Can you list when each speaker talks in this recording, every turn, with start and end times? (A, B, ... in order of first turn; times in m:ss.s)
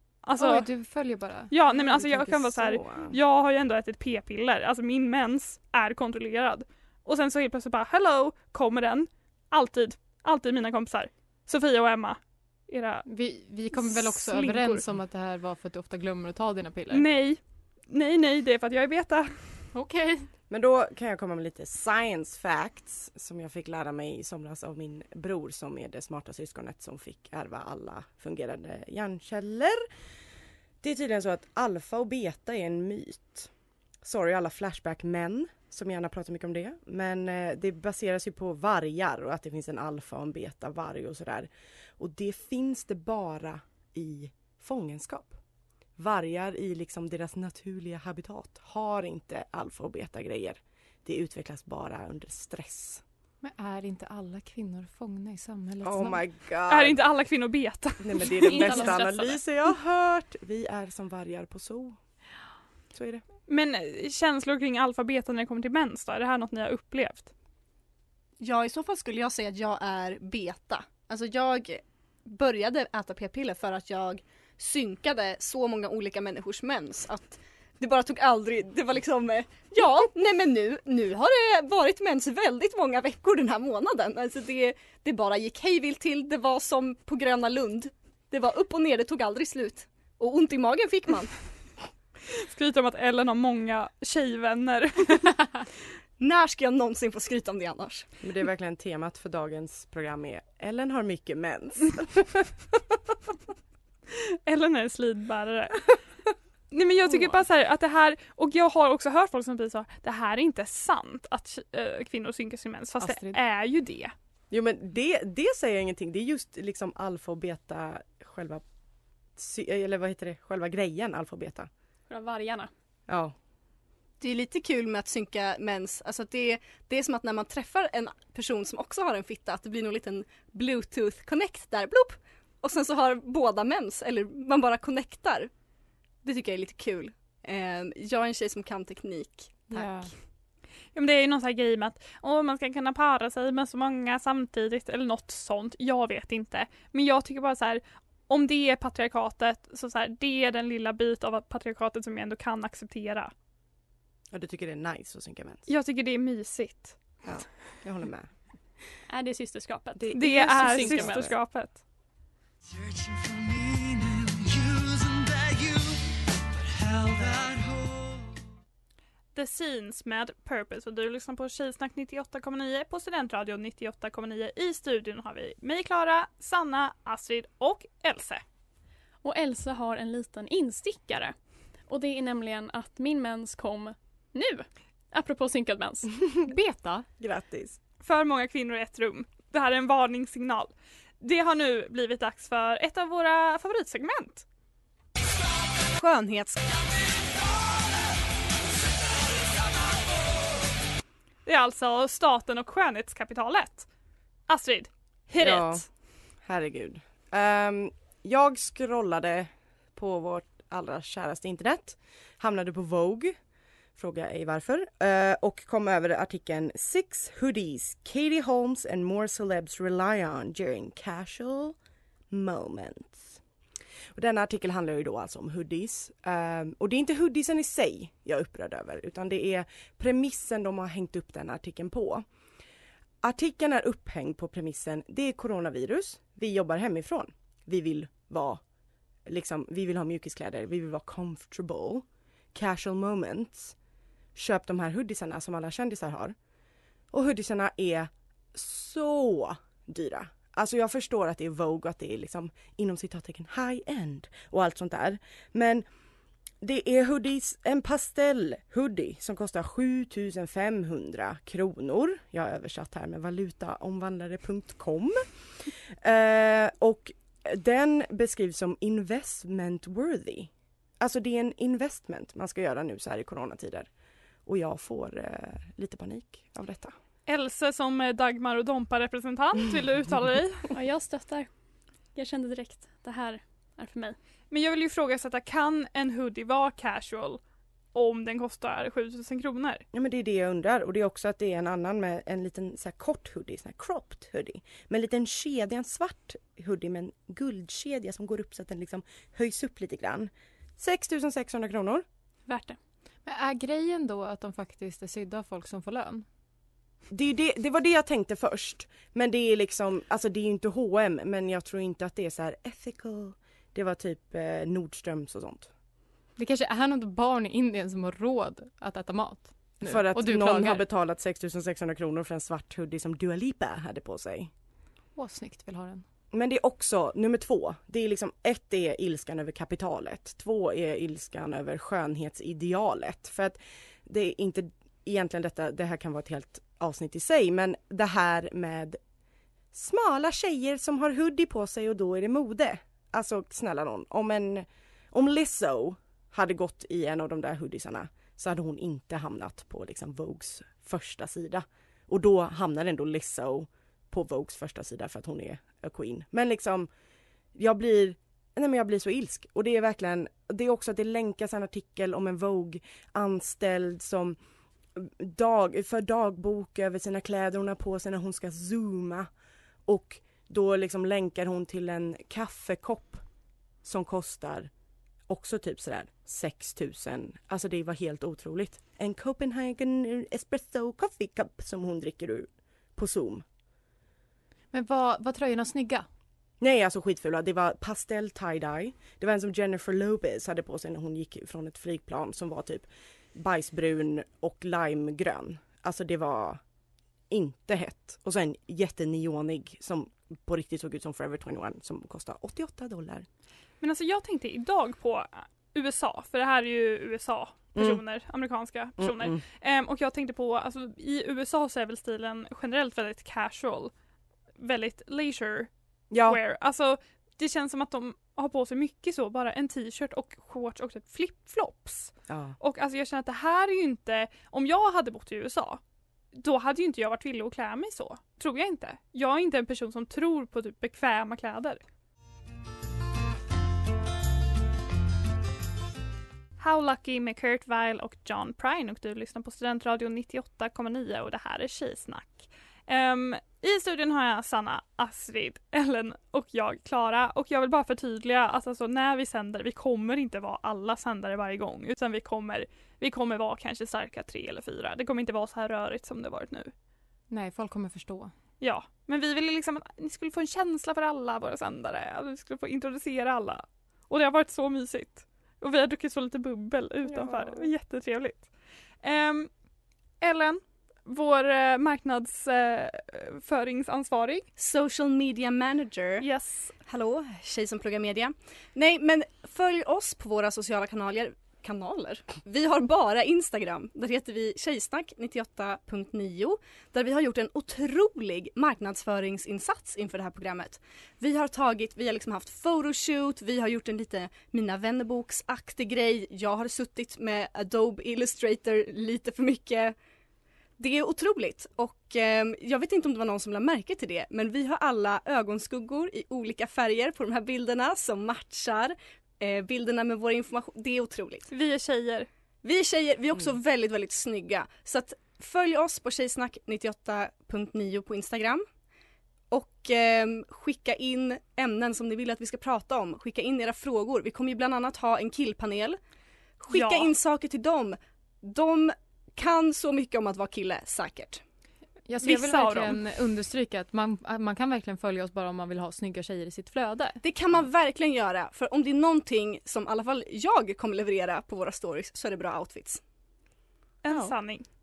0:00.2-0:00.7 A
0:00.4-0:02.8 B
0:01.5-0:13.0 A
0:02.1-0:03.1 C
0:13.0-0:17.0 B
0:13.7-0:14.9 A
0:16.9-0:19.6 A
0:19.7-0:20.3 B
0:20.5-0:29.8 C
0:30.8-0:33.5 C
0:34.0-0:45.4 C
0:46.0-0:53.0 C
0:53.4-0:56.2 B
0:55.8-0:57.0 C
0:56.7-0:59.1 A
0:58.0-1:02.0 C
0:58.4-0:59.4 D
1:02.9-1:03.2 C
1:03.5-1:07.3 A
1:08.4-1:31.5 E
1:32.3-1:35.3 A
1:36.2-1:38.1 E
1:38.2-1:42.5 C
1:44.4-1:45.9 A
1:46.7-1:54.1 A
1:53.0-1:53.4 B
1:54.5-1:58.6 C
1:59.3-2:01.7 C
2:02.1-2:02.7 D
2:03.1-2:03.3 C
2:04.2-2:15.5 E
2:16.2-2:20.0 E
2:19.7-2:20.1 B
2:20.9-2:33.3 A
2:34.3-2:35.6 C
2:35.7-2:37.0 A
2:37.2-2:38.4 C
2:39.1-2:41.3 D
2:39.9-2:41.4 C
2:40.1-2:41.8 A
2:43.5-2:43.8 C
2:44.8-2:45.6 C
2:46.8-2:48.0 C
2:49.3-2:58.4 A
2:59.2-3:06.2 D
3:06.4-3:07.1 B
3:07.2-3:07.8 C
3:08.0-3:14.4 A
3:15.9-3:16.6 E
3:21.4-3:23.9 A
3:24.5-3:25.9 A
3:25.4-3:33.4 C
3:33.9-3:41.8 C
3:42.3-3:43.4 C
3:44.1-3:52.2 C
3:53.2-3:58.6 C
3:59.2-4:03.8 C
4:04.3-4:06.3 C
4:07.1-4:15.8 C
4:16.6-4:25.2 C
4:26.0-4:33.9 C
4:34.4-4:36.9 C
4:37.2-4:40.7 A
4:40.7-4:44.2 D
4:44.5-4:47.4 A
4:47.9-4:49.8 A
4:49.9-5:02.0 C
5:02.5-5:02.8 D
5:03.2-5:06.2 B
5:07.1-5:15.7 C
5:16.4-5:20.8 B
5:19.8-5:24.5 C
5:25.2-5:26.0 B
5:26.3-5:39.0 C
5:39.7-5:56.9 C
5:57.5-6:04.4 C
6:05.0-6:09.3 C
6:09.8-6:13.2 C
6:13.8-6:14.7 C
6:15.3-6:23.4 C
6:24.7-6:26.0 B
6:26.6-6:36.6 C
6:37.3-6:43.3 C
6:43.8-6:53.9 A
6:47.7-6:48.0 C
6:49.0-6:49.4 C
6:54.6-7:05.8 A
6:56.1-6:56.4 C
7:02.3-7:02.6 C
7:06.3-7:11.8 A
7:16.6-7:36.7 A
7:37.3-7:38.3 B
7:38.6-7:48.5 A
7:49.0-7:49.5 A
7:50.2-7:54.4 A
7:54.6-7:56.3 E
7:56.2-7:56.7 A
7:56.8-8:19.9 E
8:20.8-8:31.5 E
8:31.5-8:32.3 A
8:32.6-8:38.6 E
8:39.5-8:46.0 E
8:46.6-8:51.4 E
8:46.7-8:47.1 A
8:52.1-8:57.2 B
8:52.2-8:53.0 A
8:57.2-9:03.0 E
9:04.0-9:04.6 A